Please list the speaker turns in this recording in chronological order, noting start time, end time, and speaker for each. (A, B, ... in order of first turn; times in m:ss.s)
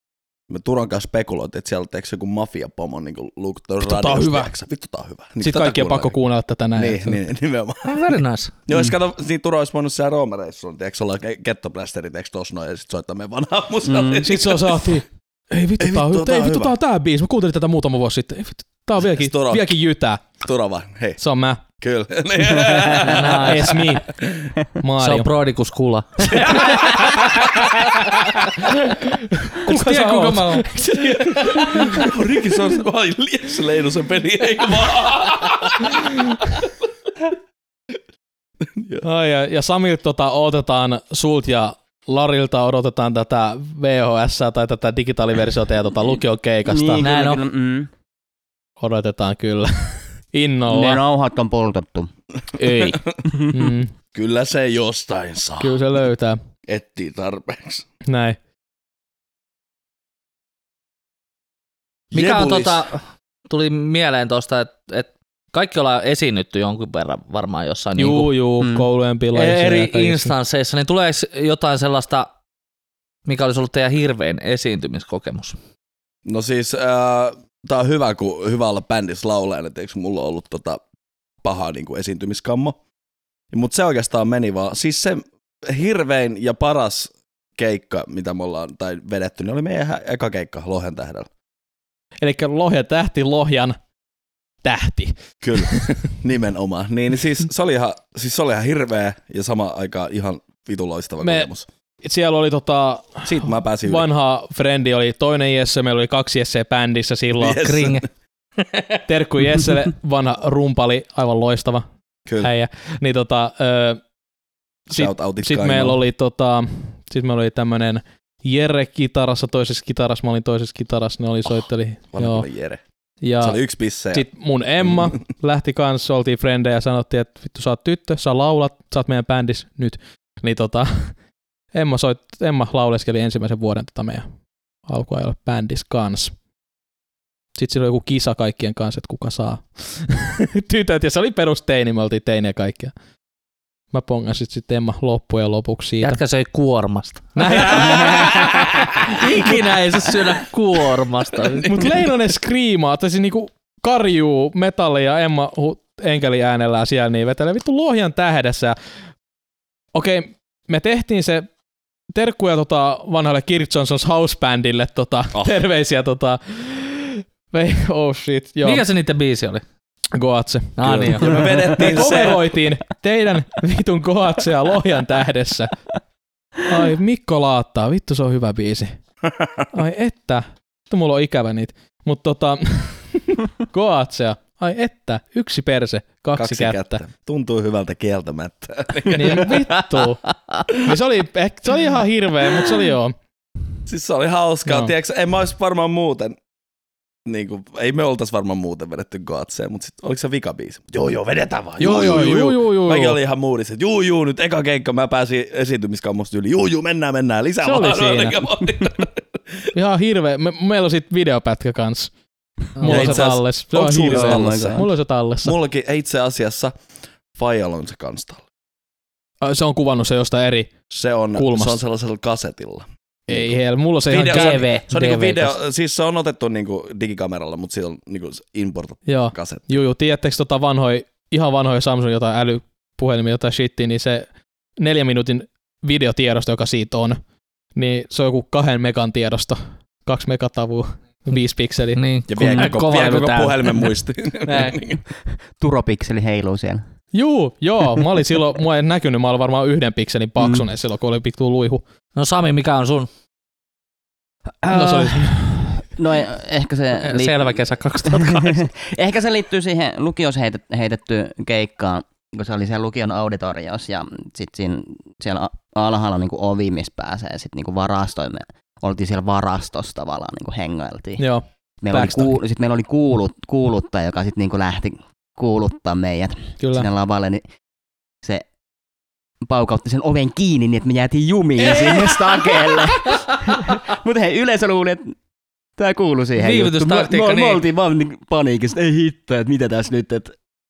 0:00.5-0:06.2 A
0:03.8-0:04.5 B
0:05.4-0:07.2 B
0:06.7-0:14.9 A
0:07.8-0:08.5 C
0:13.8-0:14.2 D
0:14.2-0:20.2 B
0:15.8-0:16.7 A
0:19.0-0:19.7 A
0:20.4-0:21.2 A
0:21.2-0:21.6 B
0:21.8-0:24.5 A
0:22.5-0:23.1 D
0:23.1-0:23.8 C
0:23.2-0:24.1 B
0:24.8-0:25.3 B
0:25.0-0:26.9 C
0:26.2-0:27.7 A
0:28.6-0:32.1 B
0:29.6-0:30.7 C
0:31.0-0:36.7 A
0:38.6-0:39.0 A
0:39.0-0:47.0 B
0:46.6-0:47.9 D
0:47.0-0:47.4 C
0:48.8-0:51.0 B
0:50.7-0:52.1 D
0:52.6-0:53.0 B
0:52.8-0:53.2 A
0:52.8-0:53.6 D
0:53.5-0:53.9 B
0:54.1-0:55.8 A
0:55.6-0:56.4 B
0:56.6-0:57.8 A
0:58.0-0:58.4 B
1:02.1-1:02.8 A
1:02.1-1:08.3 C
1:08.0-1:10.3 B
1:08.6-1:08.9 D
1:09.3-1:12.3 C
1:13.2-1:15.6 C
1:16.2-1:20.8 A
1:21.4-1:22.8 A
1:23.5-1:31.3 A
1:32.2-1:33.8 B
1:34.6-1:35.9 B
1:35.4-1:41.7 A
1:41.2-1:41.5 B
1:42.0-1:47.7 B
1:43.2-1:44.1 A
1:47.4-1:48.0 A
1:47.6-1:48.0 C
1:49.1-1:51.8 B
1:52.4-1:54.0 B
1:54.9-1:56.0 A
1:54.9-2:02.5 B
2:02.1-2:02.8 A
2:03.2-2:11.1 B
2:03.4-2:04.2 A
2:11.7-2:14.2 B
2:14.9-2:16.3 B
2:17.6-2:22.9 B
2:23.9-2:26.2 B
2:26.0-2:31.8 C
2:27.4-2:29.5 B
2:31.6-2:38.8 B
2:39.9-2:41.5 B
2:42.1-2:48.8 B
2:48.6-2:49.6 C
2:50.1-2:55.7 B
2:50.8-2:51.5 C
2:50.8-2:52.5 A
2:51.3-2:51.7 D
2:56.6-2:59.0 B
2:59.7-3:07.0 B
3:06.4-3:09.7 A
3:09.1-3:13.1 B
3:13.9-3:16.4 A
3:17.2-3:29.7 A
3:21.8-3:23.2 B
3:27.6-3:28.4 B
3:29.7-3:32.1 B
3:32.8-3:33.1 C
3:32.8-3:35.5 B
3:32.8-3:34.9 A
3:34.0-3:34.8 D
3:35.4-3:36.7 A
3:37.3-3:38.4 A
3:39.4-3:40.7 B
3:40.9-3:43.5 A
3:41.4-3:41.8 B
3:43.3-3:44.7 B
3:44.1-3:49.8 A
3:44.1-3:45.5 C
3:49.0-3:54.3 B
3:54.8-3:57.2 B
3:57.7-4:02.0 B
4:02.0-4:03.7 C
4:02.3-4:05.0 A
4:04.5-4:04.7 C
4:05.6-4:06.8 D
4:07.1-4:11.8 B
4:10.4-4:10.6 D
4:12.2-4:13.1 C
4:14.6-4:31.2 D
4:14.7-4:15.7 B
4:17.0-4:18.6 C
4:31.2-4:32.4 B
4:31.8-4:37.4 D
4:36.6-4:36.9 B
4:39.4-4:45.1 D
4:41.7-4:42.2 B
4:45.8-4:50.3 D
4:46.4-4:47.6 C